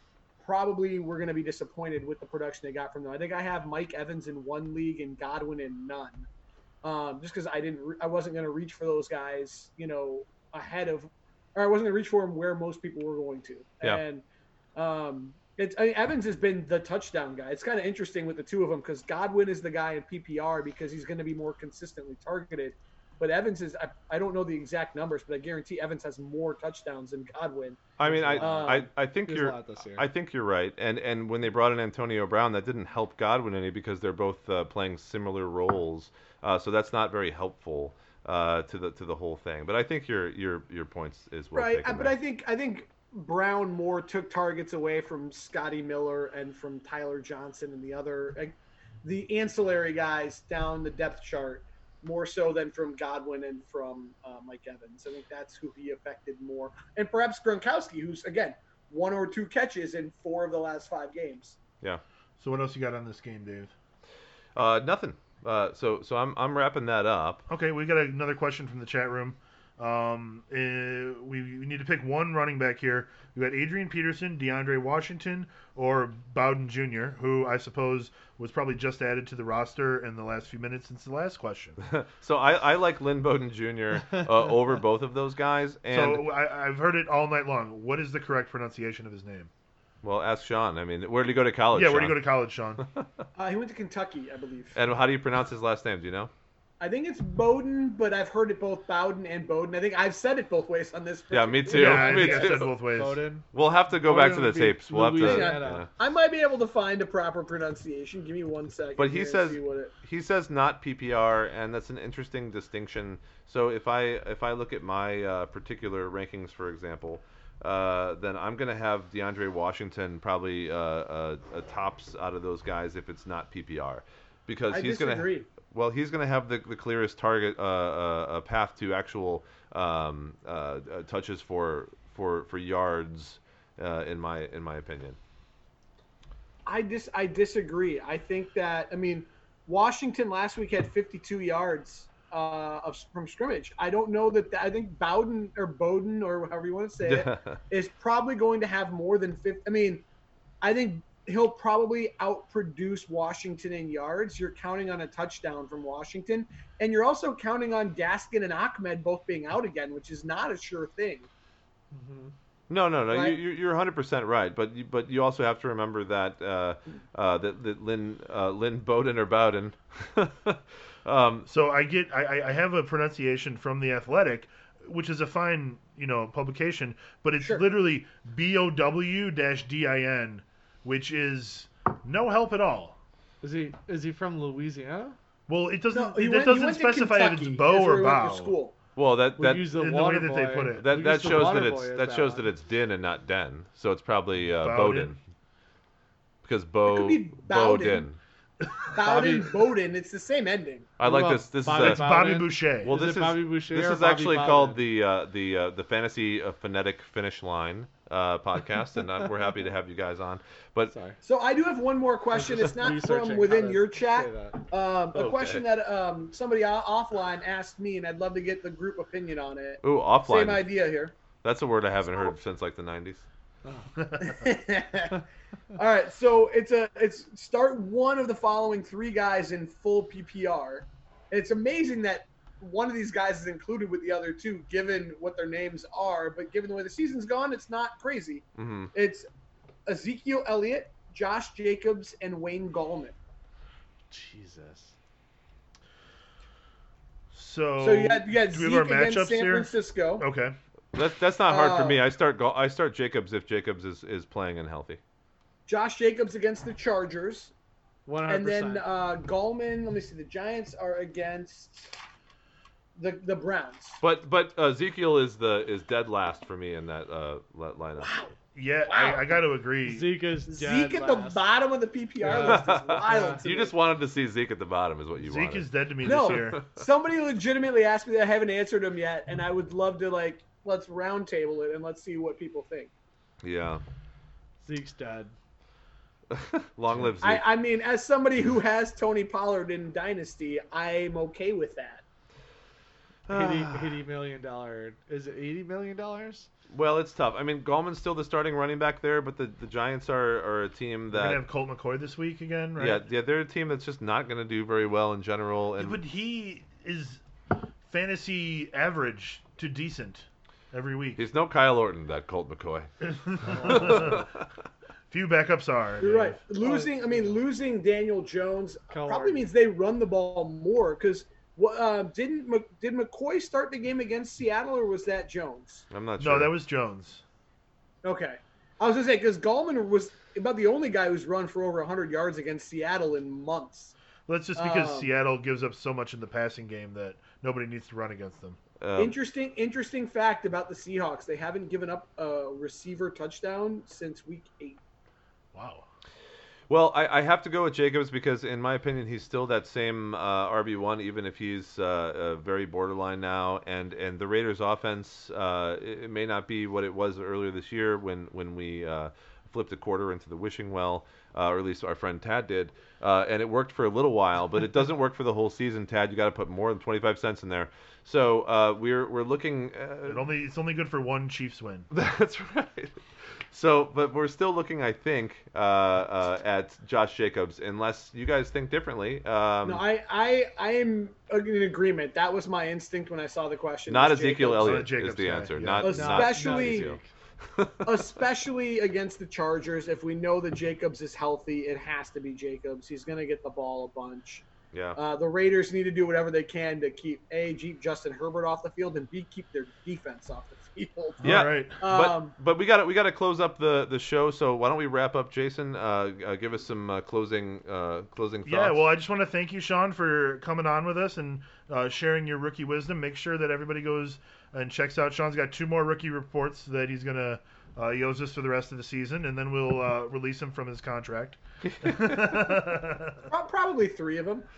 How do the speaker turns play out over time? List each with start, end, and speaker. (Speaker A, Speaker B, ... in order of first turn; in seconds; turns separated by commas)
Speaker A: 0.4-6.3, Speaker A: 6.8-14.2, Speaker A: 14.8-28.9, Speaker B: 28.0-42.2, Speaker C: 28.0-30.1, Speaker A: 41.5-61.6, Speaker D: 62.4-63.7, Speaker B: 64.5-67.4, Speaker D: 67.5-81.8, Speaker B: 81.8-86.3, Speaker D: 85.9-89.5, Speaker B: 90.0-92.2, Speaker D: 91.7-92.8, Speaker A: 93.4-94.8, Speaker B: 94.8-96.3, Speaker A: 96.8-102.5, Speaker B: 101.3-102.8, Speaker D: 101.7-103.2, Speaker C: 102.1-105.9, Speaker B: 103.5-105.9, Speaker A: 105.2-109.9, Speaker B: 109.0-135.2, Speaker A: 124.7-125.5, Speaker A: 136.7-150.0, Speaker B: 147.0-147.6, Speaker A: 150.6-161.3, Speaker C: 161.9-162.3, Speaker B: 162.7-171.5, Speaker A: 163.1-163.4, Speaker D: 171.5-183.0, Speaker A: 177.4-177.7, Speaker C: 183.4-185.2, Speaker D: 185.5-188.6, Speaker A: 185.9-188.8, Speaker B: 189.0-189.8, Speaker C: 189.4-192.5, Speaker D: 189.7-191.0, Speaker B: 190.8-195.2, Speaker D: 194.6-195.2, Speaker B: 196.4-198.2, Speaker A: 196.8-198.1, Speaker D: 198.6-199.0, Speaker A: 198.9-200.9, Speaker C: 199.0-199.6, Speaker B: 201.0-202.1, Speaker C: 201.0-204.8, Speaker D: 201.7-203.0, Speaker B: 202.8-210.9, Speaker C: 210.9-211.2, Speaker A: 211.2-221.2, Speaker C: 212.3-214.6, Speaker B: 215.1-215.7, Speaker B: 219.8-220.7, Speaker B: 221.4-223.3, Speaker C: 223.7-224.1, Speaker A: 224.2-225.2, Speaker A: 225.7-239.3, Speaker B: 238.6-238.9, Speaker A: 239.9-243.2, Speaker C: 244.1-244.9, Speaker D: 247.3-250.6, Speaker A: 247.8-250.3, Speaker B: 250.9-255.0, Speaker A: 251.5-252.0, Speaker A: 255.7-257.5, Speaker C: 258.1-258.9, Speaker A: 258.3-261.9, Speaker A: 263.0-264.0, Speaker B: 264.0-268.1, Speaker A: 268.0-268.3, Speaker D: 268.6-270.2, Speaker A: 268.9-269.4, Speaker C: 269.9-271.4, Speaker A: 270.5-273.8, Speaker C: 272.2-273.4, Speaker B: 272.3-276.6, Speaker D: 275.2-276.6, Speaker A: 276.0-282.9, Speaker B: 283.4-283.8, Speaker C: 284.6-285.4, Speaker B: 286.3-287.4, Speaker A: 287.2-292.0, Speaker B: 293.3-294.0, Speaker C: 293.3-296.5, Speaker B: 296.7-301.4, Speaker D: 301.1-303.1, Speaker B: 302.8-306.0, Speaker D: 305.8-307.2, Speaker D: 307.8-311.2, Speaker B: 311.2-312.9, Speaker D: 313.0-314.3, Speaker C: 313.5-314.2, Speaker B: 313.6-314.4, Speaker D: 315.1-316.4, Speaker A: 316.0-325.9, Speaker C: 316.6-317.4, Speaker C: 318.9-319.4, Speaker B: 325.9-326.5, Speaker D: 326.2-327.2, Speaker A: 328.0-333.9, Speaker D: 334.3-338.6, Speaker A: 334.6-335.1, Speaker B: 338.8-339.2, Speaker A: 339.0-344.8, Speaker D: 345.6-345.9, Speaker B: 346.7-370.3, Speaker D: 370.1-371.9, Speaker B: 371.9-379.8, Speaker A: 379.6-384.9, Speaker B: 383.9-387.9, Speaker D: 384.6-385.9, Speaker A: 385.8-386.9, Speaker C: 385.9-387.1, Speaker A: 387.8-402.4, Speaker B: 394.7-395.0, Speaker D: 401.2-401.8, Speaker B: 401.2-408.8, Speaker D: 408.4-423.3, Speaker B: 421.6-422.6, Speaker A: 423.3-424.5